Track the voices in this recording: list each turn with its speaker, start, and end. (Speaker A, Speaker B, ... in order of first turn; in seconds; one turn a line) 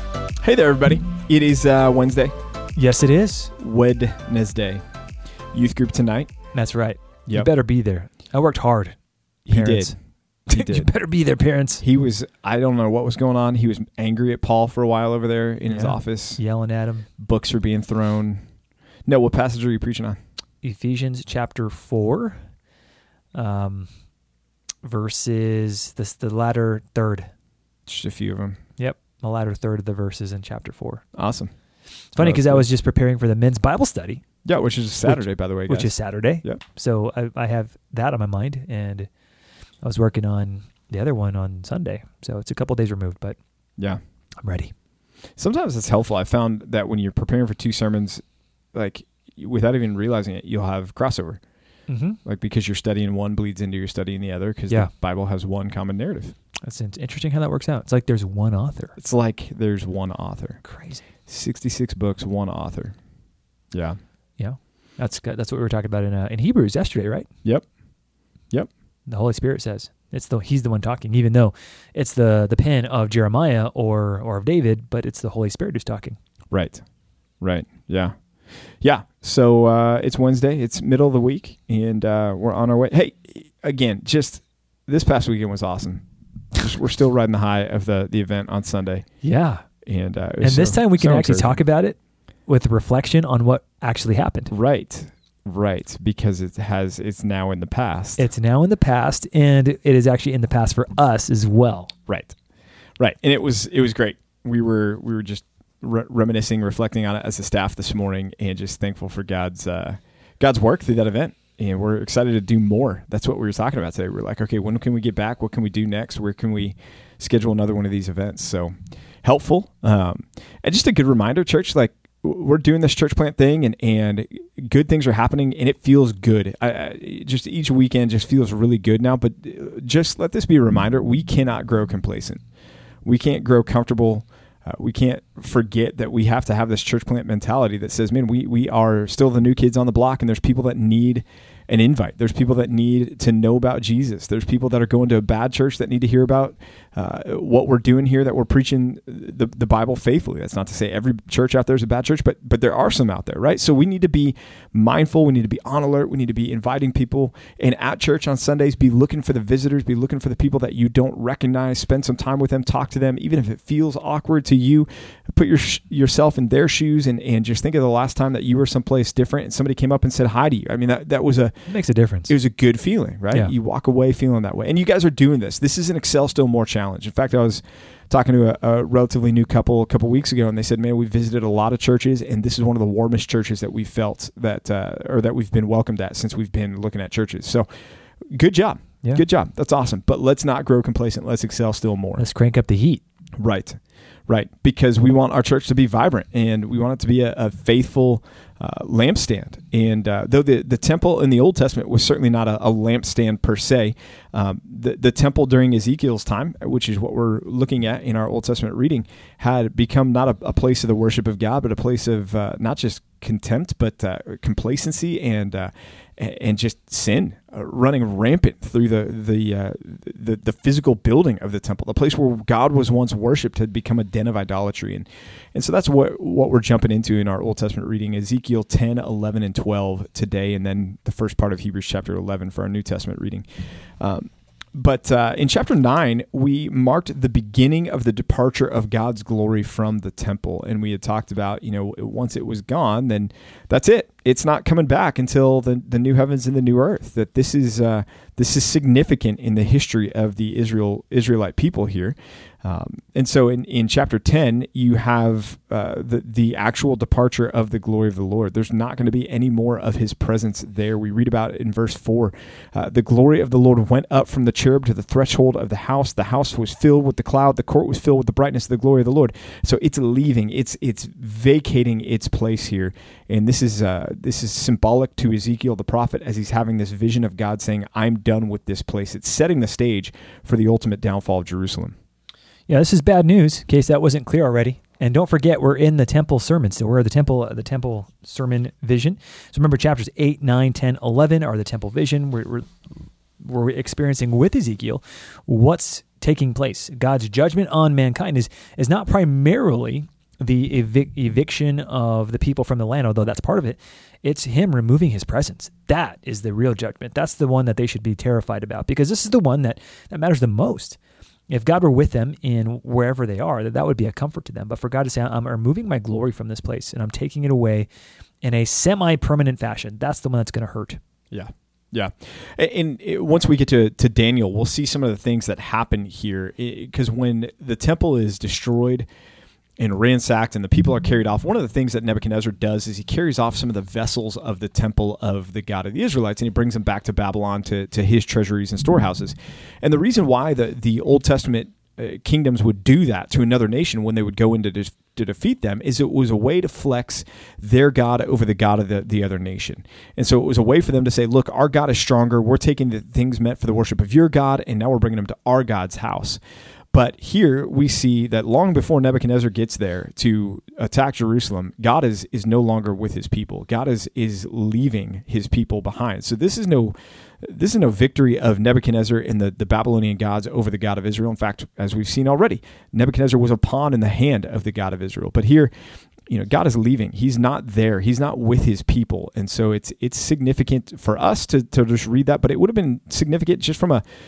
Speaker A: 0.4-2.4
Speaker B: 2.8-3.5
Speaker A: 3.6-4.8
Speaker A: 5.5-6.3
Speaker B: 6.5-9.0
Speaker A: 9.5-9.9
Speaker B: 9.5-9.9
Speaker A: 10.5-10.9
Speaker B: 10.5-11.8
Speaker A: 11.8-16.4
Speaker B: 15.7-17.1
Speaker A: 17.2-18.4
Speaker A: 19.1-20.2
Speaker B: 20.6-22.4
Speaker B: 23.3-23.9
Speaker B: 24.8-27.3
Speaker A: 27.9-28.6
Speaker B: 28.8-31.1
Speaker A: 31.2-31.5
Speaker B: 32.1-34.2
Speaker A: 32.2-32.7
Speaker A: 34.5-35.9
Speaker B: 35.0-39.1
Speaker B: 39.8-43.4
Speaker B: 44.4-44.7
Speaker A: 45.4-51.4
Speaker B: 51.9-52.2
Speaker A: 52.2-56.3
Speaker B: 56.6-58.9
Speaker A: 59.0-60.6
Speaker B: 60.6-61.1
Speaker A: 61.2-63.0
Speaker A: 63.7-64.0
Speaker B: 64.4-67.3
Speaker B: 69.1-76.2
Speaker A: 76.5-76.8
Speaker A: 77.4-78.2
Speaker A: 78.8-86.0
Speaker A: 86.5-89.0
Speaker B: 89.2-89.6
Speaker A: 89.8-91.6
Speaker B: 90.4-94.5
Speaker A: 94.5-98.2
Speaker B: 98.2-101.9
Speaker A: 102.1-102.4
Speaker A: 103.0-132.4
Speaker A: 133.1-171.6
Speaker B: 171.7-172.3
Speaker A: 172.3-187.7
Speaker A: 188.3-192.2
Speaker B: 192.2-193.0
Speaker A: 193.4-233.5
Speaker A: 234.0-281.9
Speaker B: 282.7-292.7
Speaker B: 293.4-311.0
Speaker B: 311.5-317.9
Speaker B: 318.4-321.0
Speaker A: 321.3-329.1
Speaker A: 329.8-356.4
Speaker A: 356.9-375.7
Speaker A: 376.3-384.0